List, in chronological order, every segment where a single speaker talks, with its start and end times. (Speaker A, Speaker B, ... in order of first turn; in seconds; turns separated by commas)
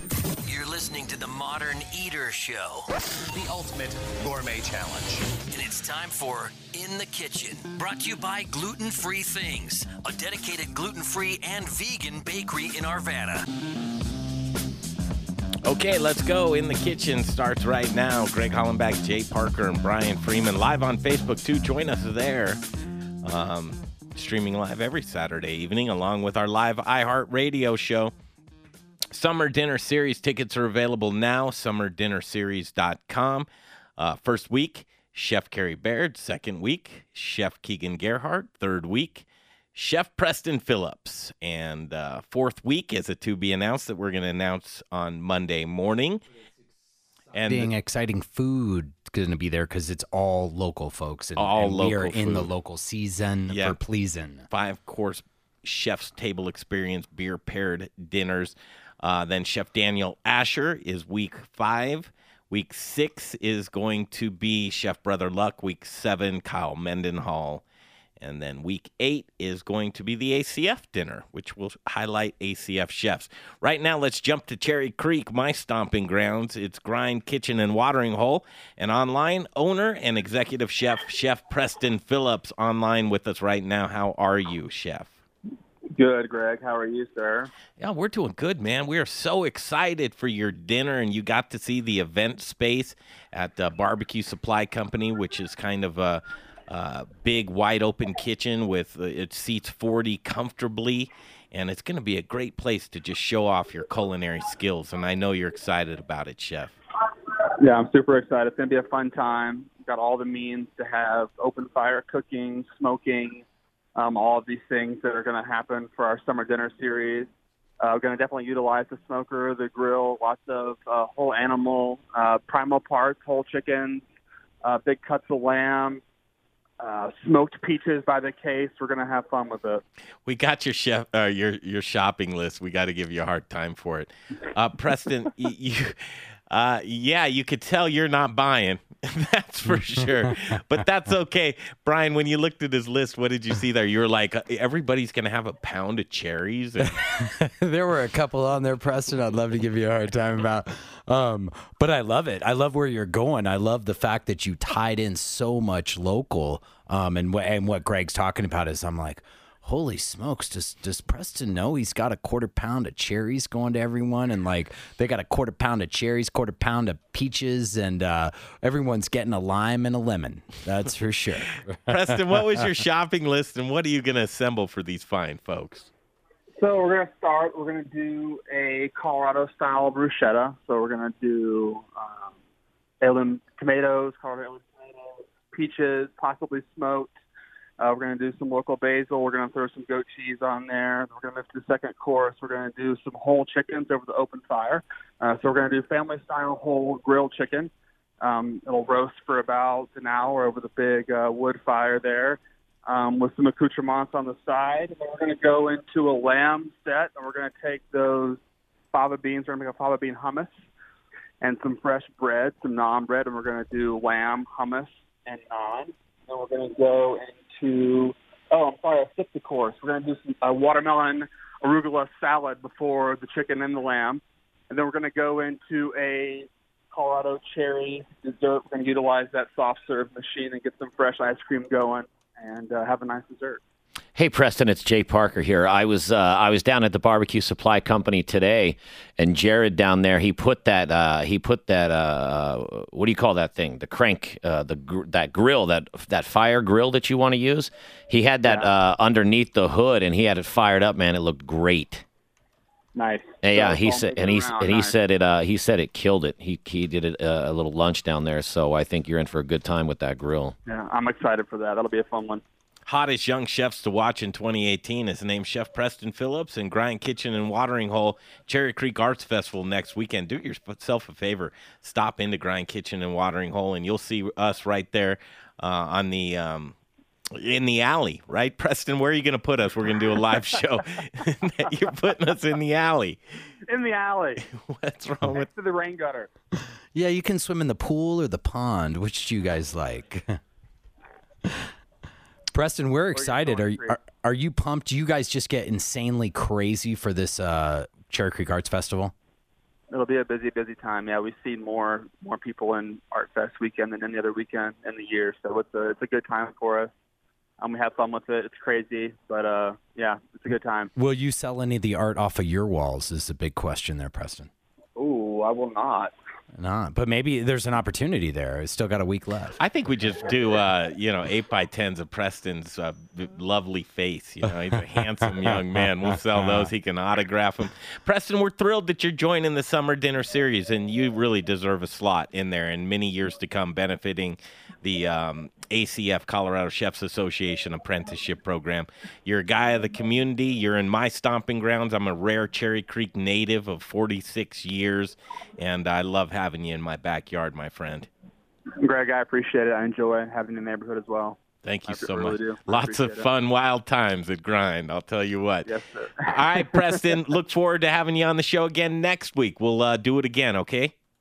Speaker A: 0.4-2.9, Speaker A: 5.5-13.5, Speaker B: 15.6-22.6, Speaker B: 23.2-28.1, Speaker B: 29.1-46.2, Speaker B: 47.3-47.7, Speaker C: 47.4-54.5, Speaker B: 51.4-52.5, Speaker B: 53.5-53.8, Speaker B: 54.5-67.6, Speaker B: 68.2-85.2, Speaker D: 86.0-87.5, Speaker B: 87.8-106.8, Speaker D: 107.6-113.4, Speaker D: 114.0-117.3, Speaker D: 117.8-124.0, Speaker D: 124.6-126.0, Speaker D: 126.8-129.8, Speaker B: 130.2-147.0, Speaker C: 139.7-140.3, Speaker C: 147.0-172.2, Speaker B: 171.9-175.9, Speaker D: 176.6-182.4, Speaker D: 183.0-187.1, Speaker D: 187.8-208.4, Speaker D: 208.9-210.6, Speaker D: 211.4-233.6, Speaker E: 234.2-252.0, Speaker D: 248.4-248.7, Speaker D: 252.9-254.9, Speaker E: 253.4-260.6, Speaker D: 260.6-262.4, Speaker B: 262.9-276.8, Speaker B: 277.3-283.2, Speaker D: 283.7-284.4, Speaker B: 284.4-285.5, Speaker D: 285.2-286.3, Speaker C: 286.9-290.4, Speaker C: 291.4-291.7, Speaker C: 292.5-299.1, Speaker D: 293.1-294.0, Speaker D: 299.9-306.9, Speaker D: 307.6-310.9, Speaker C: 310.9-314.5, Speaker D: 315.0-316.1, Speaker C: 316.5-319.6, Speaker B: 319.6-348.1, Speaker C: 325.2-325.6, Speaker C: 326.3-326.7, Speaker D: 348.8-353.3, Speaker B: 351.6-355.7, Speaker D: 355.6-356.8, Speaker B: 356.2-360.9